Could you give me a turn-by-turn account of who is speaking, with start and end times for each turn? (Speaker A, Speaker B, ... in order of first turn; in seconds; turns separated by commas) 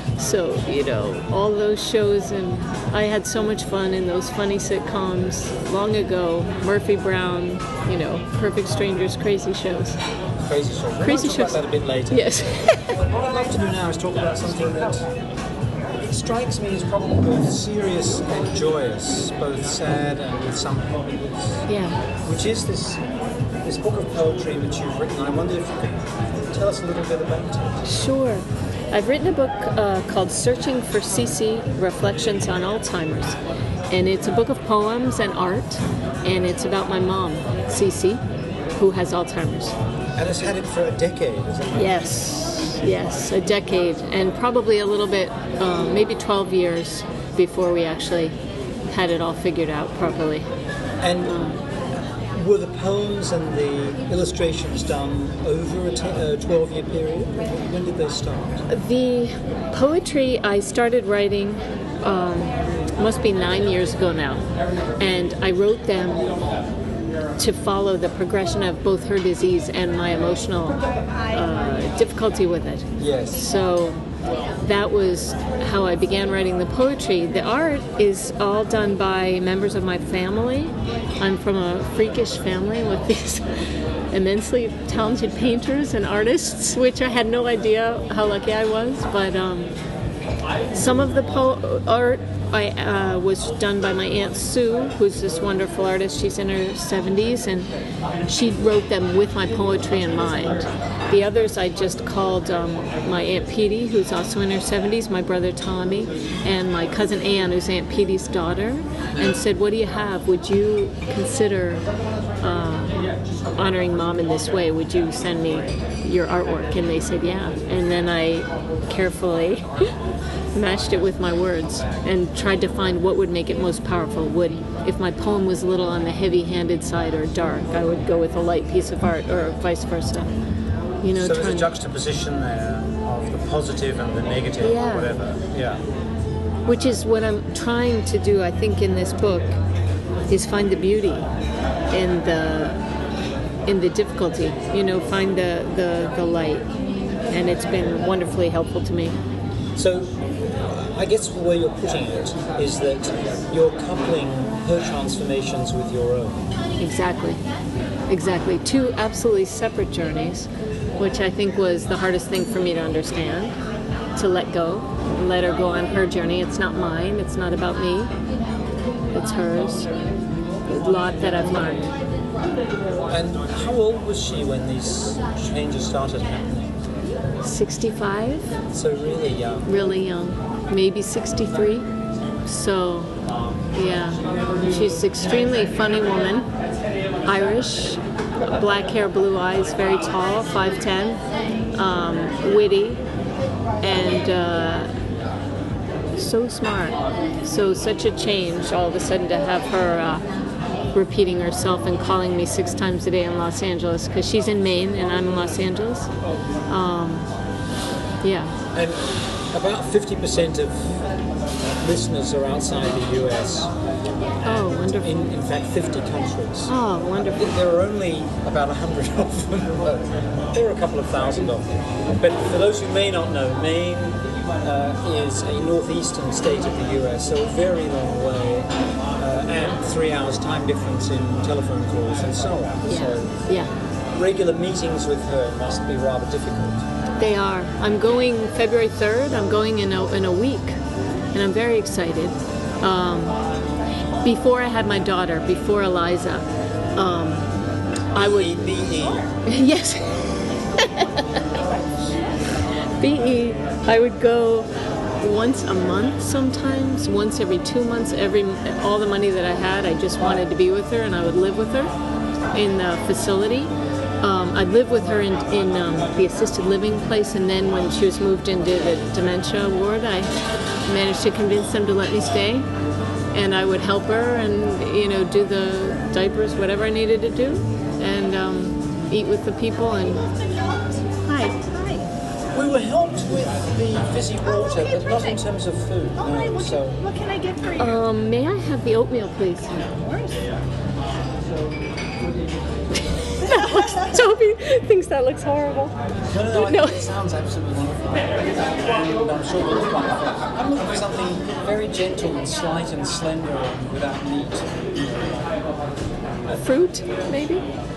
Speaker A: 0.2-10.0, Speaker B: 10.4-15.1, Speaker A: 11.0-13.0, Speaker B: 16.0-21.6, Speaker A: 21.7-22.0, Speaker B: 22.2-23.0, Speaker B: 23.6-27.8, Speaker A: 27.8-33.4, Speaker A: 33.9-38.2, Speaker A: 38.8-39.8, Speaker B: 40.1-42.0, Speaker A: 41.8-48.3, Speaker A: 48.9-50.5, Speaker B: 51.0-51.5, Speaker A: 51.3-51.6, Speaker B: 52.3-58.6, Speaker A: 58.7-64.5, Speaker A: 65.0-66.4, Speaker A: 67.4-74.0, Speaker B: 73.0-73.4, Speaker A: 74.6-83.5, Speaker A: 84.1-89.7, Speaker A: 90.7-97.7, Speaker A: 98.3-111.9, Speaker A: 112.4-119.9, Speaker A: 120.5-130.3, Speaker A: 131.0-131.7, Speaker B: 131.1-135.8, Speaker A: 134.6-135.1, Speaker A: 136.7-139.6, Speaker A: 140.3-141.3, Speaker A: 141.9-142.8, Speaker A: 143.7-146.7, Speaker A: 147.3-149.2, Speaker B: 149.8-150.2, Speaker B: 150.7-156.4, Speaker A: 156.8-157.4, Speaker A: 158.1-163.6, Speaker A: 164.2-168.1, Speaker A: 169.1-169.9, Speaker A: 170.7-171.9, Speaker B: 173.0-176.8, Speaker A: 177.4-178.5, Speaker B: 178.7-179.7, Speaker A: 179.7-181.9, Speaker A: 182.4-183.2, Speaker A: 183.7-186.5, Speaker A: 187.2-191.2, Speaker A: 191.7-193.0, Speaker A: 193.8-194.9, Speaker A: 196.2-200.2, Speaker A: 200.9-206.1, Speaker A: 206.7-207.3, Speaker A: 208.2-208.6, Speaker B: 208.7-211.0, Speaker B: 211.8-213.7, Speaker A: 214.4-215.1, Speaker B: 214.7-216.7, Speaker A: 216.7-217.5, Speaker B: 217.4-233.4, Speaker A: 232.8-233.7, Speaker B: 234.1-236.8, Speaker A: 237.2-240.8, Speaker A: 241.3-243.4, Speaker A: 244.2-247.5, Speaker A: 248.1-248.6, Speaker B: 248.2-249.3, Speaker A: 249.4-251.4, Speaker A: 253.0-254.7, Speaker A: 255.2-261.9, Speaker A: 262.5-270.3, Speaker A: 270.9-272.7, Speaker A: 273.3-280.3, Speaker C: 280.3-282.0, Speaker A: 281.3-281.7, Speaker B: 282.5-287.0, Speaker C: 284.5-285.4, Speaker C: 286.2-288.0, Speaker A: 287.8-289.8, Speaker C: 290.0-290.4, Speaker A: 293.2-295.9, Speaker C: 293.5-294.1, Speaker B: 296.3-305.2, Speaker A: 296.5-297.1, Speaker A: 306.6-307.6